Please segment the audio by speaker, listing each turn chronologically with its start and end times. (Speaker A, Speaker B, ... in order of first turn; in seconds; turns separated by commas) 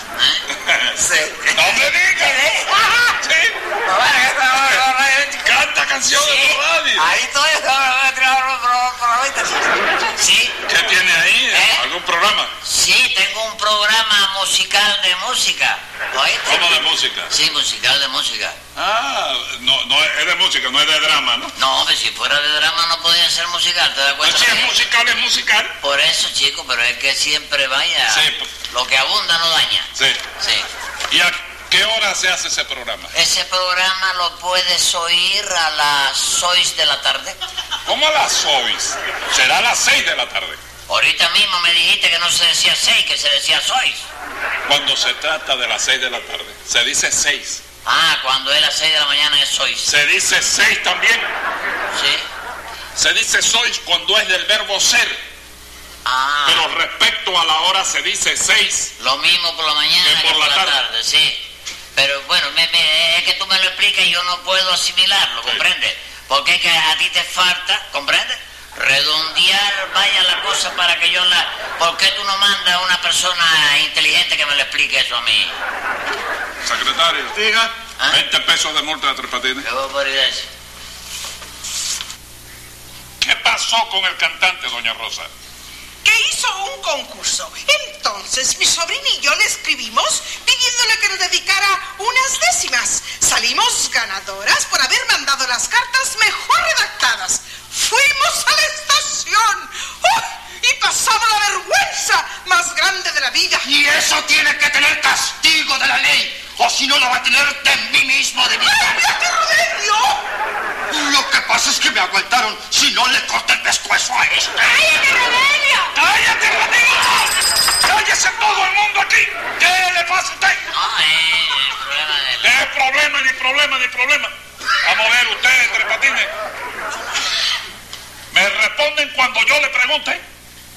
Speaker A: 0.2-0.4, Speaker B: 0.5-1.0, Speaker A: 1.0-3.1, Speaker B: 1.5-2.6, Speaker B: 3.2-3.6, Speaker A: 3.9-5.6, Speaker B: 4.6-4.8, Speaker B: 5.4-7.1, Speaker A: 6.1-10.6, Speaker B: 10.7-12.5, Speaker A: 11.5-11.8, Speaker A: 12.6-18.6, Speaker B: 16.4-17.3, Speaker B: 18.8-21.5, Speaker A: 21.6-24.7, Speaker B: 24.2-25.8, Speaker A: 25.8-30.7, Speaker B: 28.1-28.5, Speaker B: 29.9-30.2, Speaker B: 31.1-33.1, Speaker A: 33.1-37.4, Speaker B: 37.8-40.6, Speaker A: 40.9-44.1, Speaker B: 44.6-47.6, Speaker A: 47.8-49.9, Speaker B: 49.8-51.3, Speaker A: 51.9-52.3, Speaker B: 53.0-55.2, Speaker A: 56.0-56.6, Speaker B: 56.5-58.9, Speaker A: 59.0-61.4, Speaker B: 60.0-60.8, Speaker A: 61.9-75.5, Speaker B: 76.6-77.4, Speaker B: 78.1-79.7, Speaker A: 79.6-80.5, Speaker B: 83.2-85.3, Speaker C: 86.0-103.7, Speaker D: 103.6-109.1, Speaker C: 108.6-110.2, Speaker D: 110.9-114.8, Speaker C: 114.6-115.9, Speaker B: 115.9-120.6, Speaker A: 120.7-122.5, Speaker B: 122.4-126.3, Speaker B: 128.3-130.2